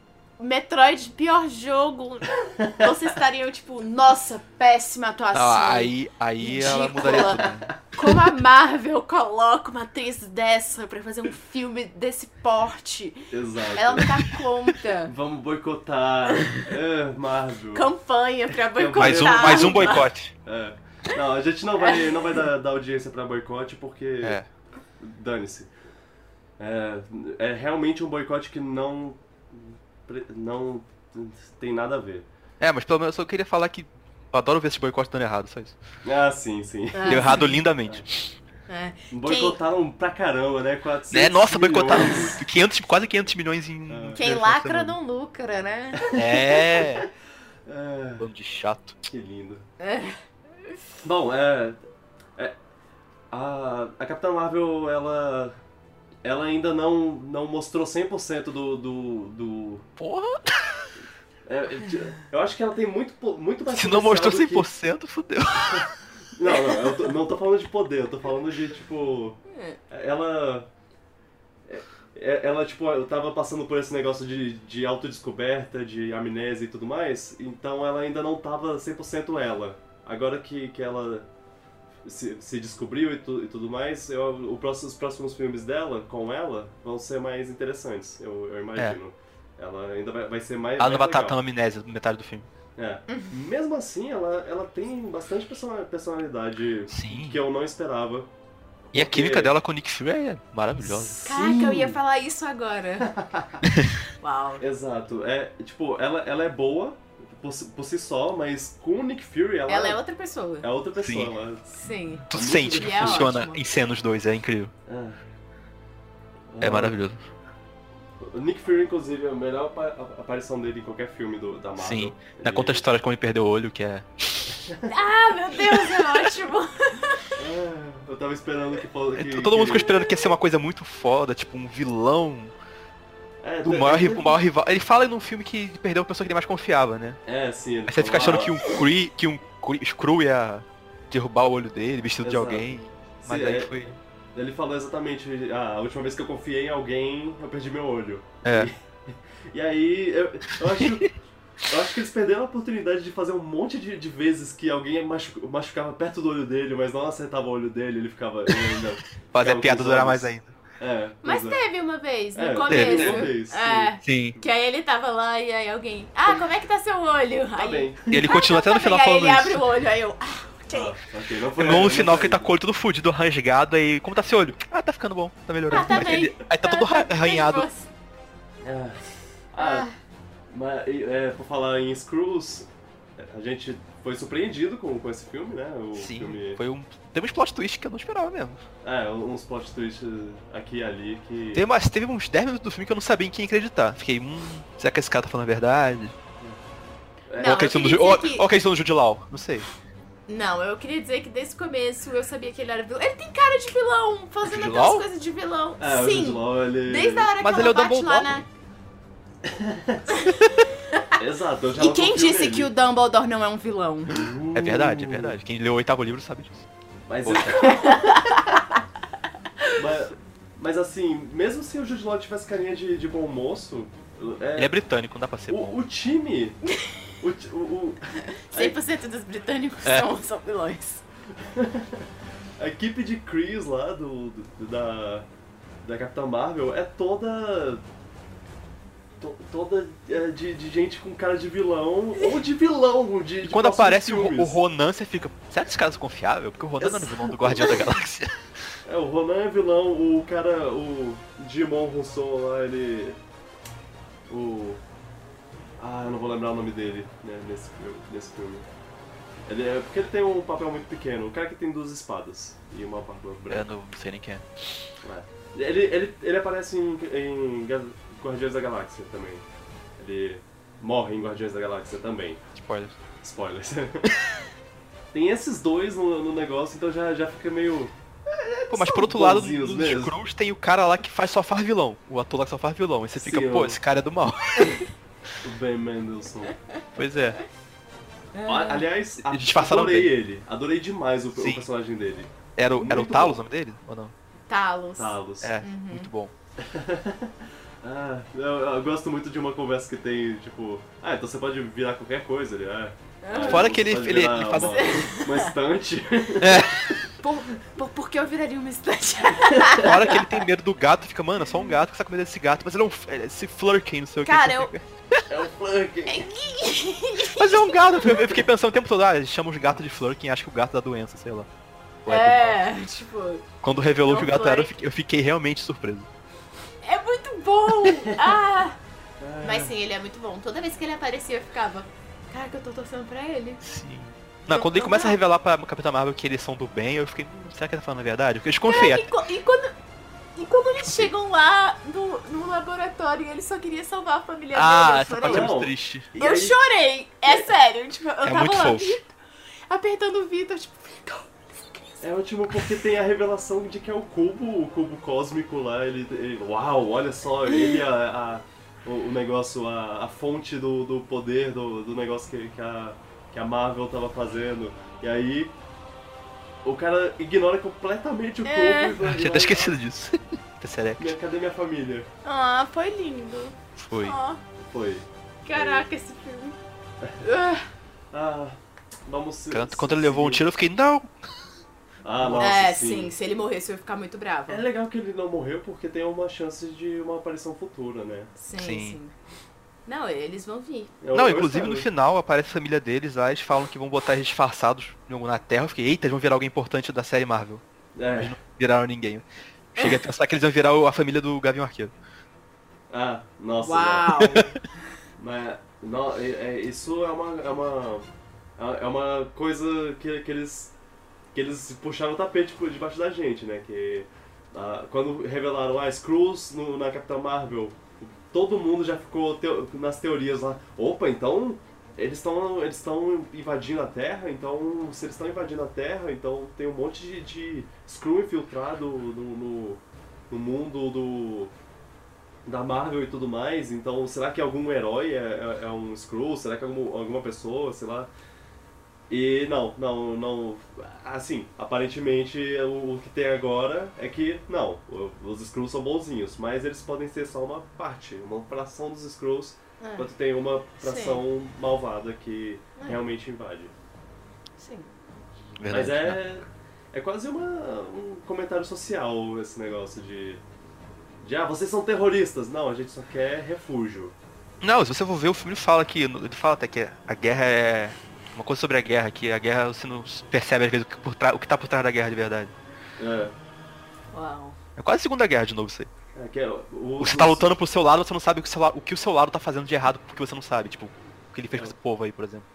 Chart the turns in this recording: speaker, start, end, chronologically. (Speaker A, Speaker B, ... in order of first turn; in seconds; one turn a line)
Speaker A: 0.4-15.1
Speaker B: 2.6-2.9
Speaker C: 5.3-7.7
Speaker B: 7.4-7.7
Speaker B: 13.3-14.4
Speaker B: 15.1-17.9
Speaker A: 17.7-20.1
Speaker B: 18.6-24.4
Speaker C: 19.0-20.3
Speaker A: 21.8-22.3
Speaker C: 24.2-24.5
Speaker B: 25.0-25.7
Speaker B: 26.6-32.3
Speaker C: 32.6-35.8
Speaker B: 36.0-38.0
Speaker A: 36.9-37.6
Speaker C: 37.1-38.2
Speaker A: 38.7-39.6
Speaker B: 39.1-42.4
Speaker C: 41.1-45.0
Speaker B: 43.9-44.2
Speaker A: 44.1-46.5
Speaker B: 46.0-47.1
Speaker C: 46.1-47.1
Speaker B: 47.6-48.3
Speaker C: 48.2-49.0
Speaker B: 49.1-49.6
Speaker A: 49.8-50.2
Speaker B: 51.0-51.8
Speaker B: 53.3-55.5
Speaker B: 56.2-59.9
Speaker C: 60.0-60.9
Speaker B: 61.5-64.7
Speaker C: 63.7-66.0
Speaker B: 65.7-70.7
Speaker A: 69.5-69.8
Speaker B: 71.7-81.3
Speaker B: 82.0-91.4
Speaker C: 90.8-92.5
Speaker B: 92.8-98.3
Speaker A: 93.1-93.3
Speaker C: 96.9-97.4
Speaker B: 98.9-99.5
Speaker C: 98.9-101.2
Speaker B: 100.8-102.0
Speaker A: 101.2-103.1
Speaker B: 103.0-103.7
Speaker C: 103.6-104.0
Speaker A: 104.2-104.6
Speaker B: 104.6-110.0
Speaker A: 109.7-110.7
Speaker B: 110.6-111.7
Speaker C: 111.0-111.3
Speaker A: 111.7-113.6
Speaker B: 112.3-113.3
Speaker C: 112.3-114.7
Speaker B: 114.9-115.2
Speaker B: 116.5-117.0
Speaker C: 116.6-117.2
Speaker B: 118.2-122.8
Speaker C: 121.8-124.6
Speaker A: 124.8-127.3
Speaker C: 125.6-126.3
Speaker B: 127.3-130.0
Speaker C: 129.2-132.5
Speaker B: 133.4-134.4
Speaker C: 133.6-137.2
Speaker B: 137.2-138.6
Speaker C: 137.9-144.0
Speaker B: 142.2-143.8
Speaker B: 144.3-161.6
Speaker C: 148.4-148.7
Speaker C: 159.3-160.5
Speaker A: 161.2-171.0
Speaker B: 162.3-164.0
Speaker C: 162.7-163.3
Speaker C: 164.0-164.3
Speaker B: 167.6-168.3
Speaker C: 168.1-169.6
Speaker B: 170.7-172.5
Speaker C: 171.6-177.7
Speaker A: 175.7-177.9
Speaker B: 175.8-176.1
Speaker B: 178.6-179.0
Speaker B: 179.5-179.9
Speaker A: 179.6-179.9
Speaker B: 180.5-186.6
Speaker C: 185.9-188.6
Speaker B: 188.8-191.6
Speaker C: 191.5-196.1
Speaker B: 197.3-197.7
Speaker A: 197.4-198.5
Speaker C: 197.4-199.7
Speaker A: 200.3-208.5
Speaker C: 204.4-205.1
Speaker B: 205.8-207.3
Speaker C: 207.4-208.4
Speaker B: 209.4-210.2
Speaker A: 210.1-211.1
Speaker B: 211.2-212.7
Speaker A: 211.7-214.2
Speaker B: 214.1-215.4
Speaker C: 214.5-216.6
Speaker B: 217.1-218.4
Speaker C: 217.2-217.7
Speaker A: 217.5-218.7
Speaker B: 219.7-224.7
Speaker C: 224.6-225.8
Speaker B: 225.5-226.6
Speaker B: 227.2-228.8
Speaker A: 228.5-231.0
Speaker B: 231.4-232.1
Speaker B: 232.6-235.3
Speaker B: 235.8-237.8
Speaker B: 239.2-244.6
Speaker C: 243.4-248.5
Speaker B: 246.8-247.9
Speaker B: 248.8-253.2
Speaker B: 254.3-254.8
Speaker B: 255.8-258.6
Speaker B: 259.5-263.7
Speaker C: 263.5-264.4
Speaker B: 265.0-269.4
Speaker B: 270.0-272.4
Speaker C: 272.6-272.9
Speaker B: 273.2-274.1
Speaker B: 275.1-280.1
Speaker C: 278.7-284.9
Speaker B: 283.2-283.8
Speaker B: 285.4-286.6
Speaker C: 286.9-287.4
Speaker A: 288.3-288.9
Speaker B: 288.4-293.4
Speaker C: 289.2-290.1
Speaker C: 291.3-291.6
Speaker C: 292.6-294.1
Speaker A: 294.5-296.1
Speaker B: 295.0-295.6
Speaker C: 295.4-296.3
Speaker B: 296.6-306.7
Speaker A: 303.2-303.7
Speaker C: 303.4-305.0
Speaker A: 304.6-305.5
Speaker C: 306.4-307.1
Speaker A: 307.2-310.3
Speaker B: 309.5-309.9
Speaker C: 309.8-315.2
Speaker A: 314.2-314.7
Speaker B: 315.3-316.3
Speaker A: 316.1-318.3
Speaker C: 317.2-321.5
Speaker C: 322.0-322.6
Speaker A: 322.1-323.4
Speaker C: 323.6-326.1
Speaker A: 324.0-324.7
Speaker A: 326.8-328.8
Speaker B: 329.2-329.7
Speaker A: 329.4-333.6
Speaker C: 333.6-339.1
Speaker A: 334.5-335.2
Speaker A: 338.6-339.7
Speaker A: 340.4-345.6
Speaker C: 344.5-346.1
Speaker B: 345.2-346.6
Speaker A: 346.2-349.1
Speaker C: 348.2-349.0
Speaker A: 349.7-352.1
Speaker B: 352.0-365.5
Speaker A: 357.5-357.8
Speaker B: 366.6-369.8
Speaker A: 368.4-368.9
Speaker C: 369.0-371.1
Speaker B: 371.0-372.1
Speaker A: 372.2-374.4
Speaker C: 373.8-374.2
Speaker B: 374.6-375.8
Speaker A: 375.4-376.6
Speaker A: 377.2-377.7
Speaker B: 378.1-380.4
Speaker C: 379.5-381.1
Speaker B: 382.0-383.1
Speaker C: 382.2-382.6
Speaker A: 382.4-384.6
Speaker B: 384.5-388.3
Speaker A: 388.4-389.1
Speaker C: 388.6-389.0
Speaker A: 389.9-390.9
Speaker B: 391.0-391.9
Speaker C: 391.1-401.9
Speaker B: 397.9-398.4
Speaker B: 402.9-404.3
Speaker A: 403.6-404.6
Speaker B: 405.2-410.7
Speaker B: 411.3-431.5
Speaker B: 432.4-438.1
Speaker B: 439.1-453.7
Speaker A: 449.8-450.1
Speaker A: 450.8-451.2
Speaker A: 454.6-454.9
Speaker C: 455.6-456.2
Speaker B: 455.7-460.4
Speaker B: 461.2-464.1
Speaker C: 464.6-472.5
Speaker B: 473.0-473.3
Speaker A: 474.1-474.6
Speaker C: 474.8-475.9
Speaker B: 476.1-477.5
Speaker C: 477.0-482.4